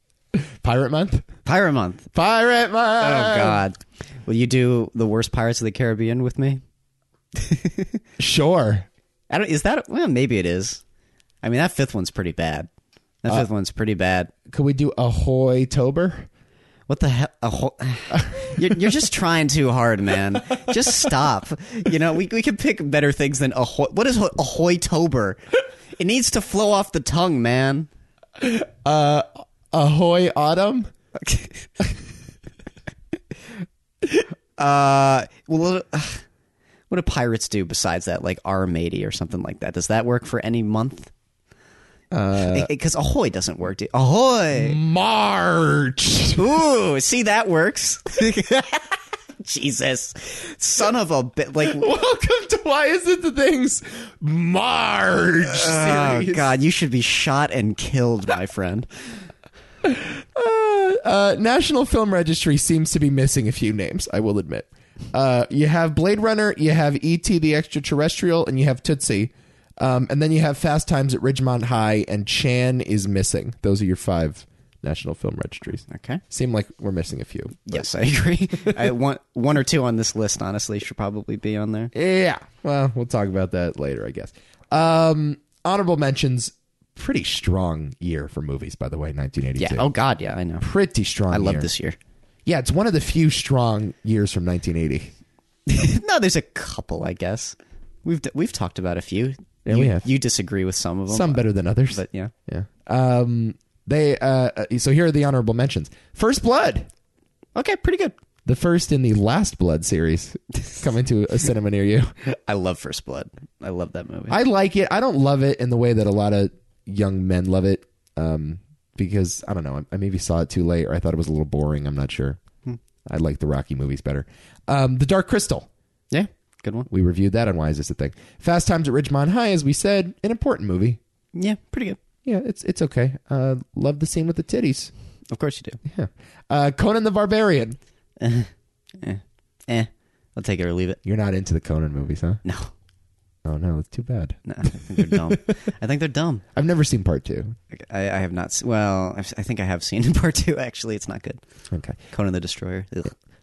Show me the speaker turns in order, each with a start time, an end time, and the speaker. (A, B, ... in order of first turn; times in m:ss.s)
0:00.3-0:01.2 A
0:01.4-0:02.0 B
0:02.1-0:03.6 A
0:03.0-0:06.6 B
0:07.4-0:08.0 B
0:08.2-0:08.9 A
0:09.3-0:10.8 B
0:11.4-0:12.7 B
0:13.2-0:14.3 B
0:14.5-0:16.3 A
0:16.9-0:25.4 B
0:26.0-0:27.9 B
0:28.4-0:30.9 A
0:31.2-0:31.8 B
0:34.6-0:36.2 B
0:36.9-0:41.1 B
0:42.1-0:42.7 A
0:42.4-0:44.8 B
0:44.5-0:46.4 A
0:46.4-0:51.8 B
0:51.6-0:56.5 A
0:55.5-0:58.9 B
0:59.8-1:17.8 A
1:15.9-1:16.2 B
1:17.7-1:21.9 B
1:21.9-1:29.8 A
1:29.6-1:30.7 B
1:30.6-1:31.7 A
1:31.3-1:32.0 B
1:32.4-1:35.1 A
1:35.7-1:42.3 B
1:39.6-1:40.0 A
1:41.1-1:46.9 A
1:47.6-1:48.2 B
1:48.4-1:52.1 A
1:52.2-1:54.4 B
1:54.3-2:02.4 A
2:03.0-2:05.7 A
2:06.1-2:06.9 B
2:06.9-2:11.0 A
2:11.3-2:12.0 B
2:12.2-2:14.9 A
2:15.3-2:15.8 B
2:15.8-2:17.8 A
2:18.2-2:18.5 B
2:19.0-2:21.0 B
2:21.0-2:22.4 A
2:22.4-2:22.7 B
2:23.4-2:25.5 A
2:24.5-2:26.4 B
2:26.5-2:27.6 A
2:27.7-2:31.4 B
2:31.7-2:32.0 A
2:32.1-2:33.1 B